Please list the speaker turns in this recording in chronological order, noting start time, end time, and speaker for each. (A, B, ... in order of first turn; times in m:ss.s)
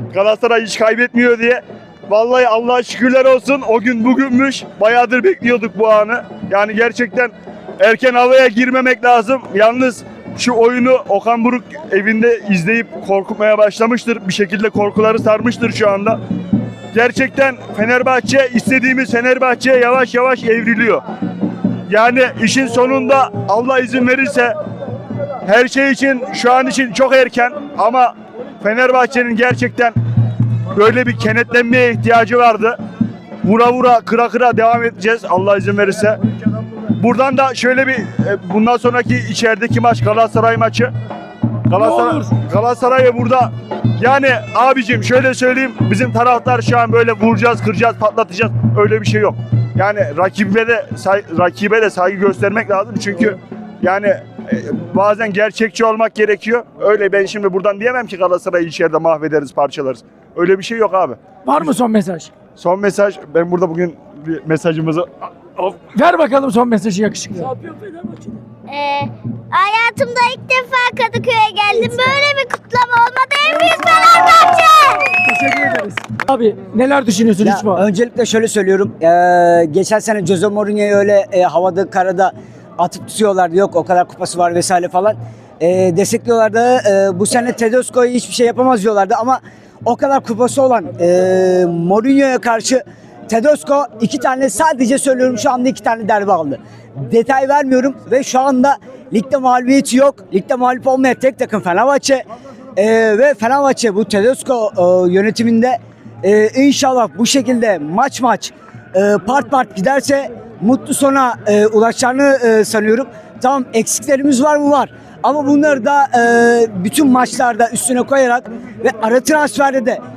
0:00.1-0:16.2 A
0:16.9-0:21.0 A
0:21.9-0:24.5 A
0:25.4-0:30.0 A
0:30.7-0:32.8 A
0:33.4-0:36.2 A
0:37.0-0:40.9 A
0:41.7-1:01.7 A
0:41.8-0:42.2 B
1:01.4-1:02.3 B
1:02.6-1:05.1 A
1:05.9-1:07.5 B
1:08.7-1:15.1 C
1:15.2-1:17.8 B
1:17.4-2:00.0 D